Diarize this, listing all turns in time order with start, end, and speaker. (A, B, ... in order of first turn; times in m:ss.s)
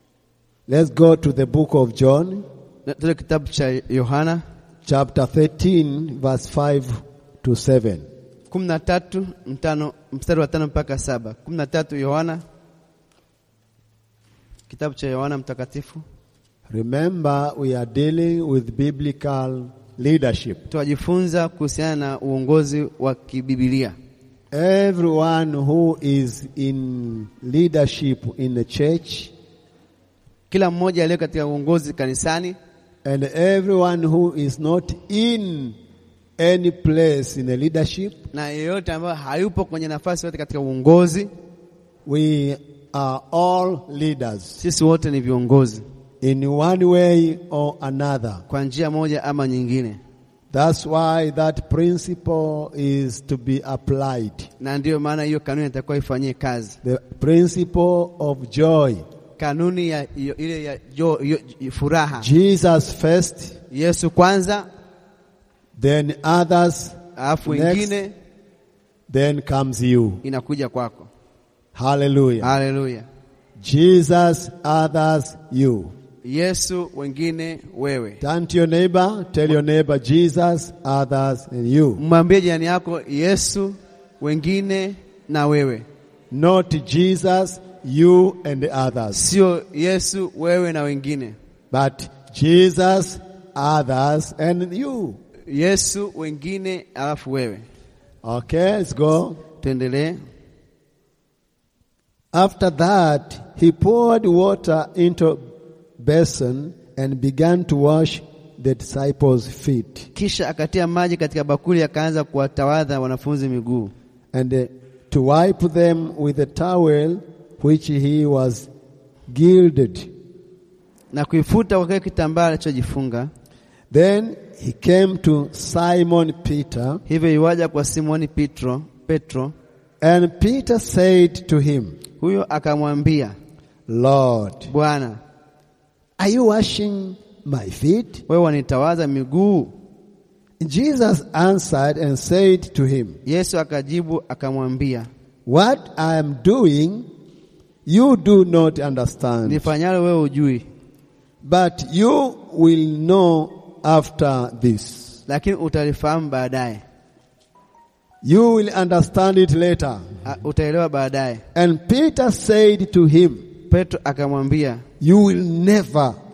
0:00.7-0:02.4 A
0:02.9-0:04.4 B
0:04.9-0:08.1 A
0:08.5-0:12.4 B
0:14.7-0:16.0 B
0:16.7-0:20.6 A
0:20.7-0:24.0 B
0:24.5-0:29.3 A
0:30.5-0:32.6 B
0:33.0-0:35.8 A
0:36.4-0:38.2 A
0:38.3-0:41.3 B
0:42.1-0:44.6 A
0:44.6-0:45.8 B
0:46.2-0:48.4 A
0:48.5-0:50.0 B
0:50.5-0:54.5 A
0:54.6-0:56.8 B
0:56.8-0:59.0 A
0:59.4-1:02.3 B
1:02.2-1:03.6 A
1:03.7-1:04.7 B
1:05.8-1:08.0 A
1:07.2-1:08.1 B
1:09.1-1:10.2 A
1:10.2-1:11.1 B
1:11.8-1:12.5 A
1:12.4-1:13.1 B
1:13.6-1:15.9 A
1:16.2-1:18.2 B
1:18.2-1:22.0 A
1:22.0-1:25.8 B
1:26.3-1:29.2 A
1:29.1-1:31.4 B
1:31.7-1:35.2 A
1:35.5-1:37.6 B
1:38.2-1:39.4 A
1:39.6-1:40.2 B
1:42.3-1:45.4 A
1:46.0-1:50.1 A
1:50.2-1:53.9 B
1:54.3-1:58.7 A
1:59.3-2:00.1 A
2:01.1-2:03.3 B
2:03.9-2:07.0 A
2:07.1-2:09.5 B
2:10.0-2:12.0 A
2:12.2-2:13.4 B
2:13.9-2:14.7 A
2:14.7-2:15.2 B
2:16.2-2:18.2 A
2:18.3-2:19.7 B
2:20.6-2:23.2 A
2:23.3-2:25.1 B
2:25.5-2:27.1 A
2:27.9-2:29.7 A
2:29.4-2:30.6 B
2:31.4-2:35.2 A
2:35.3-2:36.8 B
2:38.2-2:40.2 A
2:40.2-2:41.4 B
2:41.6-2:43.5 A
2:43.7-2:44.8 B
2:45.0-2:46.2 A